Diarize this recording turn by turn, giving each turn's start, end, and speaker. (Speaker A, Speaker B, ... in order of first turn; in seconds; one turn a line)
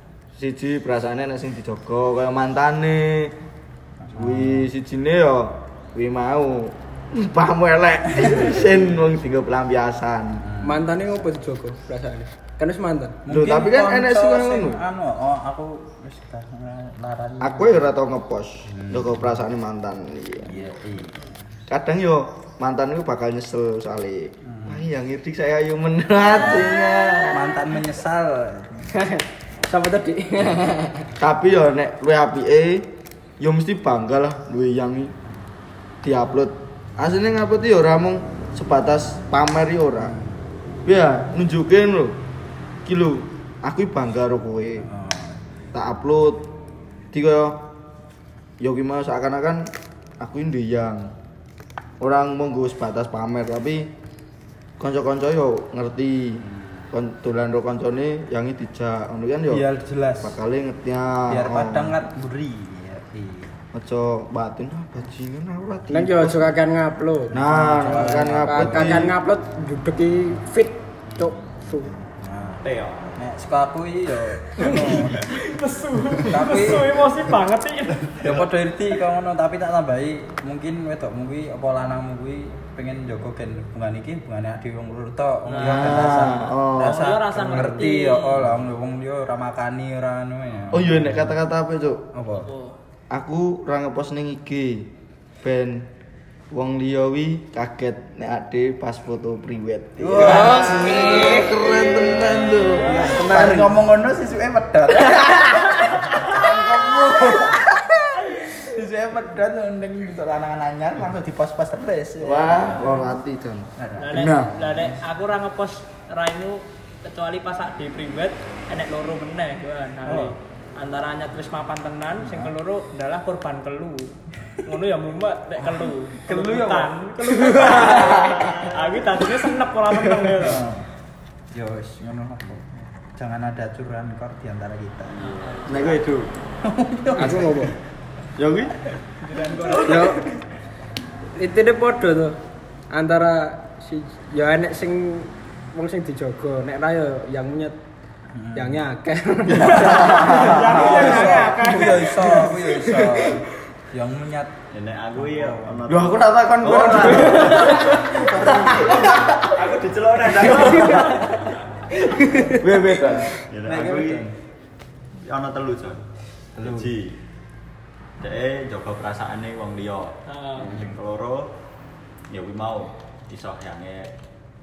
Speaker A: 0.3-3.3
Speaker B: 4.0-4.7
Speaker A: 4.1-10.4
Speaker B: 8.2-8.6
Speaker B: 10.4-11.1
Speaker C: 10.6-13.2
Speaker B: 13.2-17.8
Speaker A: 13.3-14.8
Speaker A: 17.4-20.6
Speaker B: 18.7-19.4
Speaker B: 20.4-21.5
Speaker A: 21.7-27.5
Speaker B: 24.4-24.8
Speaker B: 26.3-26.7
Speaker B: 27.3-28.9
Speaker C: 28.9-31.1
Speaker A: 31.2-32.9
Speaker A: 33.4-35.1
Speaker A: 36.0-40.1
Speaker B: 40.0-40.4
Speaker A: 40.8-42.2
Speaker A: 42.8-44.9
Speaker B: 44.8-45.4
Speaker A: 45.7-46.5
Speaker A: 47.1-47.6
Speaker A: 48.6-51.1
Speaker A: 52.0-53.9
Speaker A: 54.8-59.6
Speaker B: 59.5-60.4
Speaker A: 60.2-62.0
Speaker B: 61.3-63.5
Speaker A: 63.7-66.4
Speaker C: 65.9-67.3
Speaker B: 67.3-69.1
Speaker A: 67.3-69.2
Speaker C: 68.4-71.9
Speaker B: 71.1-75.3
Speaker D: 72.6-73.2
Speaker E: 74.7-78.0
Speaker B: 76.2-77.0
Speaker B: 78.2-91.3
Speaker E: 85.5-88.5
Speaker A: 85.6-87.1
Speaker A: 90.7-92.0
Speaker B: 92.1-92.5
Speaker E: 92.3-92.8
Speaker A: 93.1-94.9
Speaker A: 95.4-95.9
Speaker A: 96.5-103.8
Speaker B: 100.0-113.0
Speaker E: 100.5-101.7
Speaker A: 112.2-114.5
Speaker B: 113.8-115.0
Speaker E: 114.0-124.1
Speaker B: 120.0-120.3
Speaker B: 122.2-122.5
Speaker E: 124.7-130.6
Speaker B: 125.7-126.9
Speaker B: 127.5-128.4
Speaker B: 130.4-130.8
Speaker B: 131.5-135.4
Speaker E: 135.2-136.0
Speaker A: 135.7-136.3
Speaker B: 136.6-137.7
Speaker C: 137.2-137.7
Speaker A: 138.4-138.7
Speaker E: 139.2-140.3
Speaker B: 139.7-140.2
Speaker A: 139.8-140.2
Speaker C: 141.3-142.4
Speaker C: 142.9-147.8
Speaker B: 148.3-148.8
Speaker C: 148.5-153.3
Speaker A: 149.5-151.0
Speaker E: 149.6-152.4
Speaker B: 150.6-154.5
Speaker D: 154.7-161.5
Speaker B: 155.2-155.8
Speaker A: 155.9-159.4
Speaker B: 157.7-159.3
Speaker B: 161.1-161.4
Speaker C: 162.0-162.6
Speaker A: 162.6-163.3
Speaker D: 163.5-164.2
Speaker B: 163.6-164.3
Speaker D: 165.2-166.0
Speaker D: 166.6-167.2
Speaker D: 168.2-171.5
Speaker E: 170.3-170.7
Speaker B: 170.7-170.9
Speaker D: 172.3-174.1